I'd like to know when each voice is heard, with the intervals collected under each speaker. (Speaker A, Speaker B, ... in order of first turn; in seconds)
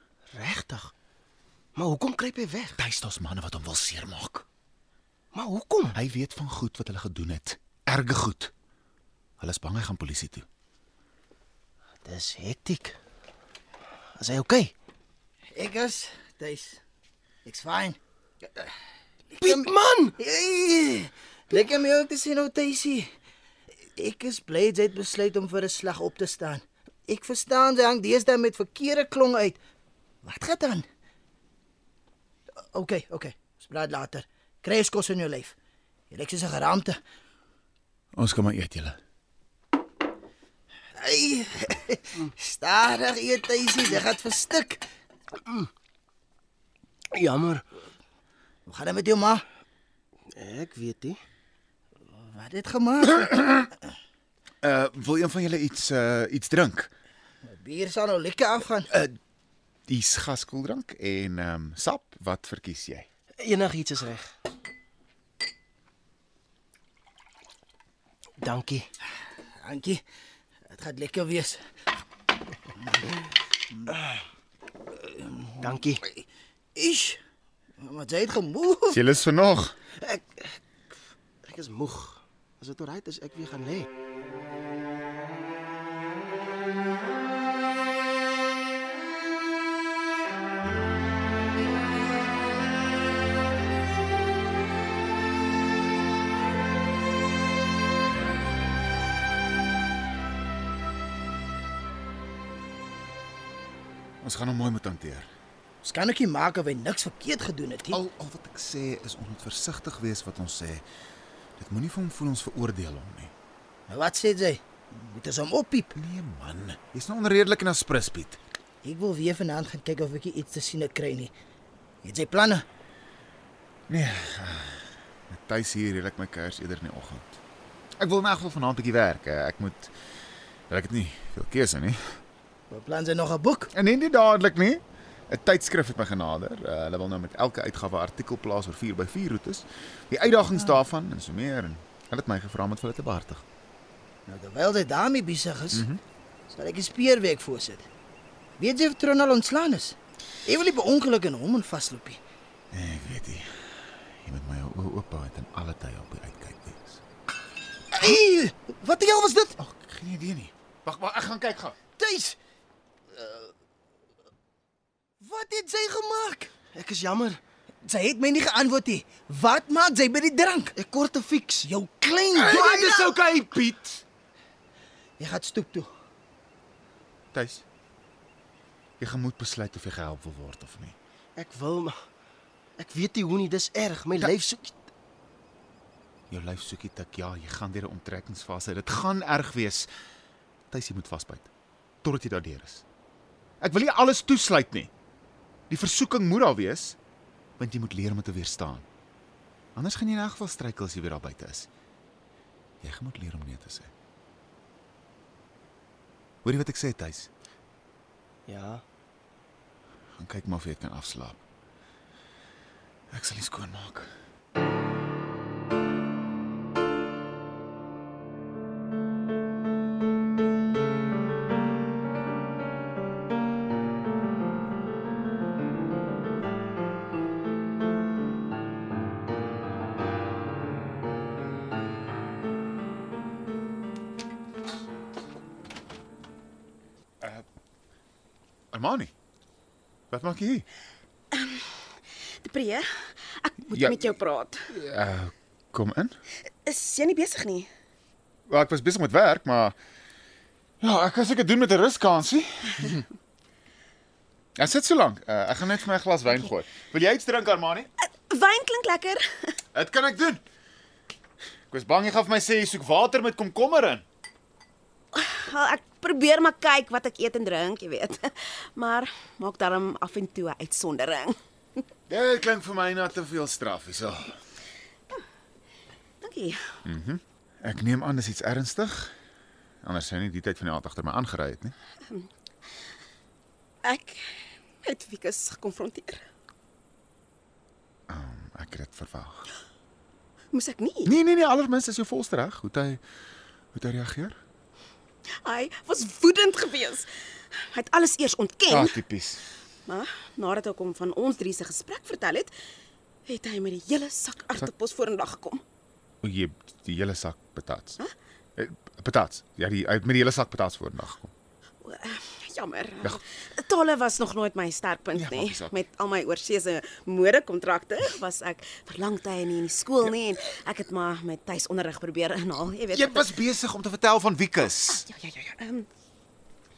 Speaker A: 0.3-0.9, 1.8-2.8, 5.3-6.0, 12.0-13.0, 14.2-14.7, 19.4-20.1, 47.1-47.6, 50.3-51.2, 63.4-64.3, 68.4-68.9, 75.6-76.0, 80.0-80.6, 81.4-83.9, 166.7-167.4, 170.8-171.7, 172.4-173.6, 181.4-182.0, 182.8-184.9, 208.5-208.8
Speaker B: 2.8-4.5, 5.9-8.5, 9.4-10.5, 38.1-39.0, 54.6-56.9, 58.9-59.2, 59.9-63.1, 78.9-79.8, 104.2-105.3, 107.9-110.8, 111.6-113.3, 116.0-118.4, 123.9-127.4, 128.0-129.9, 130.7-132.2, 133.7-143.4, 145.7-146.0, 152.7-157.0, 159.6-161.8, 172.9-174.0, 177.3-177.6, 179.0-181.0, 186.3-189.9, 190.7-191.5, 192.0-192.8, 193.6-194.9, 195.7-197.0, 197.6-198.9, 199.8-201.7, 202.8-203.9, 206.4-207.3, 210.2-211.4, 213.1-214.1, 238.7-239.1, 240.1-240.7, 243.7-244.1, 244.7-246.2, 248.5-249.8, 250.8-253.1, 254.6-257.9, 259.7-260.4, 261.7-264.1, 272.1-274.4, 276.9-279.1, 279.8-281.8, 288.1-289.5, 291.1-293.0, 293.7-294.4, 298.7-299.4, 306.2-308.0, 308.6-311.3, 315.1-315.8, 322.9-325.1
Speaker C: 15.5-16.8, 17.4-18.0, 19.3-23.1, 24.0-29.6, 30.2-30.9, 32.6-35.6, 36.1-37.0, 41.0-44.9, 48.7-49.4, 52.2-53.6, 57.4-58.9, 69.6-70.0, 70.7-71.6, 75.0-75.6, 76.8-77.2, 77.8-79.0, 105.8-108.0, 113.9-116.0, 118.8-121.3, 122.0-122.6, 132.7-133.7, 144.3-145.9, 146.5-147.9, 148.6-152.2, 157.9-159.6, 162.0-162.4, 163.1-163.5, 165.2-166.5, 167.8-170.8, 171.6-173.1, 175.2-175.9
Speaker D: 241.3-244.7, 246.7-247.7, 258.0-259.6, 265.1-271.4, 276.2-276.8, 283.8-286.2, 290.5-291.1, 295.4-299.0, 299.9-302.5, 303.3-305.6, 311.8-323.4, 324.6-325.9